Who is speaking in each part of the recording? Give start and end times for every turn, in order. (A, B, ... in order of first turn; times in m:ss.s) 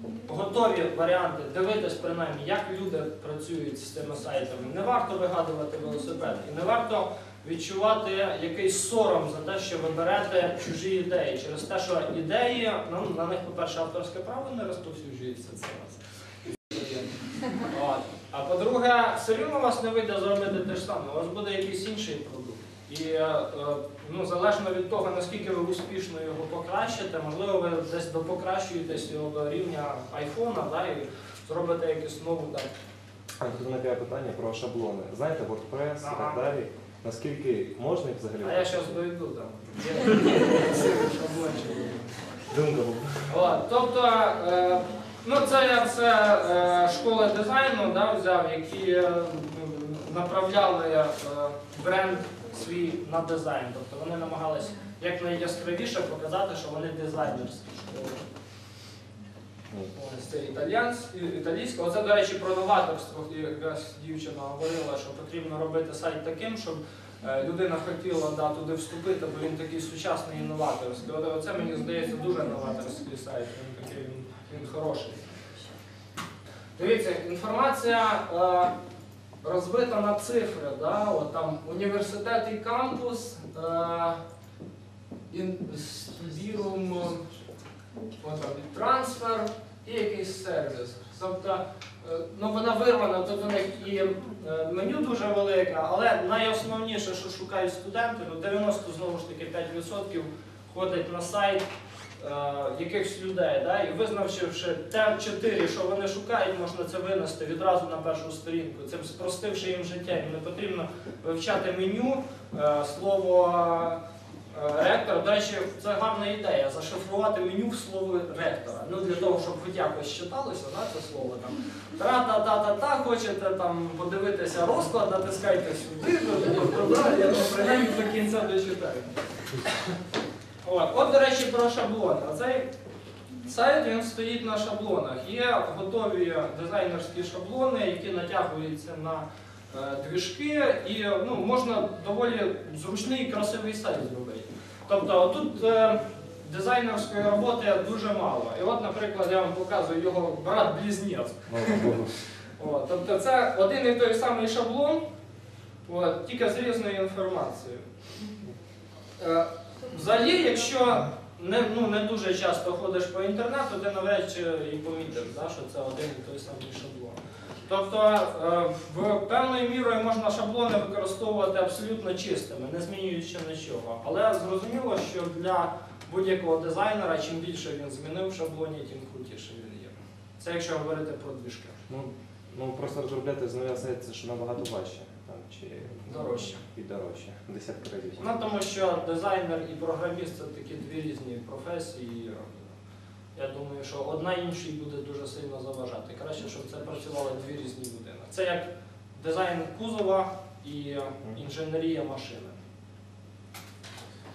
0:00.2-0:16.0 A
0:16.6-0:32.7 A
0:33.4-0:38.8 B
0:36.0-0:36.4 A
0:38.4-0:42.1 A
0:42.5-0:43.3 B
0:43.3-0:58.2 A
0:59.9-1:15.2 A
1:16.8-1:18.7 A
1:19.4-1:24.2 A
1:25.3-1:27.2 A
1:28.2-1:41.6 A
1:42.2-1:54.0 A
1:54.5-2:09.1 A
2:10.6-2:12.6 A
2:13.4-2:32.0 A
2:31.5-2:32.1 B
2:32.6-2:35.0 A
2:35.8-2:37.8 A
2:39.2-3:01.8 A
3:01.9-3:08.2 B
3:06.0-3:06.6 A
3:08.2-3:12.6 A
3:13.4-3:22.6 A